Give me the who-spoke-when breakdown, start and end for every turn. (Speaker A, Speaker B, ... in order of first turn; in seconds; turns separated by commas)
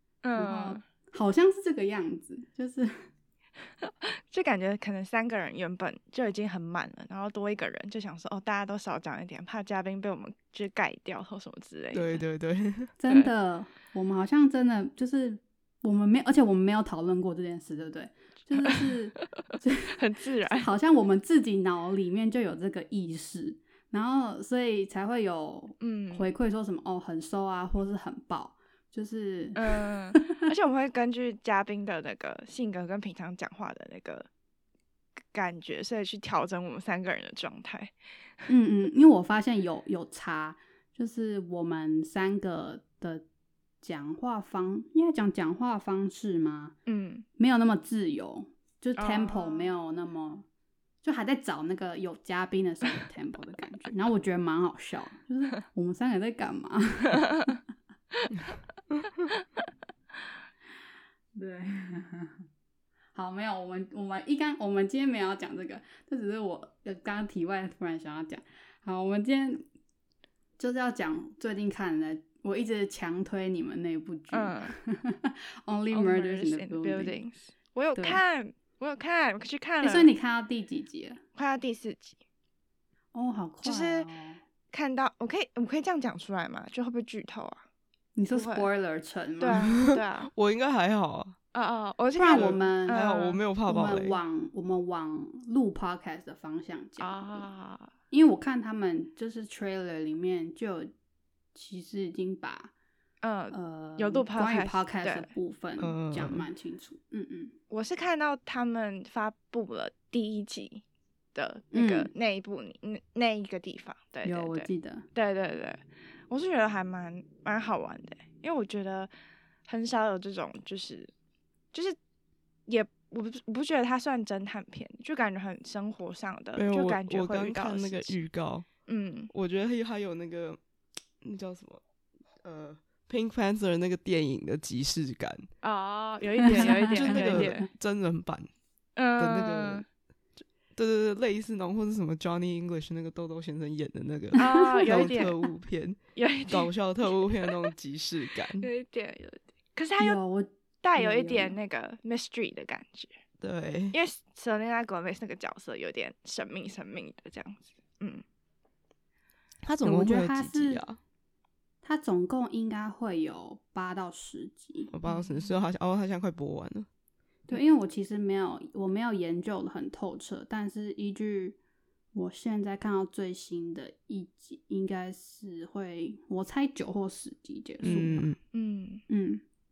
Speaker A: 0.2-0.8, Speaker B: 0.4-2.9, Speaker A: 3.8-12.2, Speaker C: 11.9-12.9, Speaker B: 13.0-30.5, Speaker A: 20.0-20.7, Speaker A: 25.8-26.3, Speaker A: 29.6-34.3, Speaker A: 35.3-37.9, Speaker B: 38.5-43.2, Speaker B: 43.8-46.8, Speaker A: 46.9-47.2, Speaker B: 47.4-50.5, Speaker A: 49.0-49.7, Speaker B: 51.0-57.1, Speaker A: 57.2-57.6, Speaker A: 58.1-58.6, Speaker B: 61.4-62.4, Speaker B: 63.1-69.7, Speaker B: 70.6-77.2, Speaker A: 74.3-74.8, Speaker A: 75.9-80.2, Speaker B: 78.0-78.2, Speaker B: 79.8-81.2, Speaker A: 81.3-82.2, Speaker B: 83.1-84.4, Speaker A: 83.6-84.1, Speaker A: 84.7-87.6, Speaker B: 88.2-89.8, Speaker A: 88.3-88.7, Speaker A: 89.4-90.3, Speaker C: 89.5-91.4, Speaker A: 91.5-93.5, Speaker B: 92.2-93.0, Speaker C: 92.2-94.2, Speaker B: 93.7-97.5, Speaker A: 97.0-97.9, Speaker B: 98.1-100.9, Speaker B: 101.5-102.7, Speaker A: 103.2-105.3, Speaker B: 103.5-107.5, Speaker C: 105.8-106.5, Speaker A: 107.7-110.8, Speaker A: 111.3-119.1, Speaker B: 111.7-112.1, Speaker B: 114.2-115.1, Speaker A: 119.7-121.1, Speaker A: 122.7-128.2, Speaker C: 126.5-128.7, Speaker A: 128.9-129.3, Speaker C: 129.3-130.6, Speaker C: 131.2-131.8, Speaker C: 132.4-135.5, Speaker A: 135.6-137.7, Speaker B: 136.4-137.6, Speaker C: 136.5-138.5, Speaker A: 139.0-139.9, Speaker C: 139.2-139.8, Speaker C: 140.4-148.7, Speaker A: 144.4-145.4, Speaker B: 144.4-144.9, Speaker A: 146.2-147.7, Speaker A: 148.6-150.2, Speaker B: 150.0-151.6, Speaker A: 150.8-153.2, Speaker C: 153.4-154.0, Speaker A: 153.9-158.2, Speaker C: 159.6-161.0, Speaker B: 159.8-160.8, Speaker B: 161.8-164.9, Speaker C: 164.9-166.9, Speaker A: 165.1-165.5, Speaker B: 167.5-171.6, Speaker B: 172.1-178.3, Speaker C: 177.8-178.4, Speaker A: 178.5-179.0, Speaker B: 179.1-179.4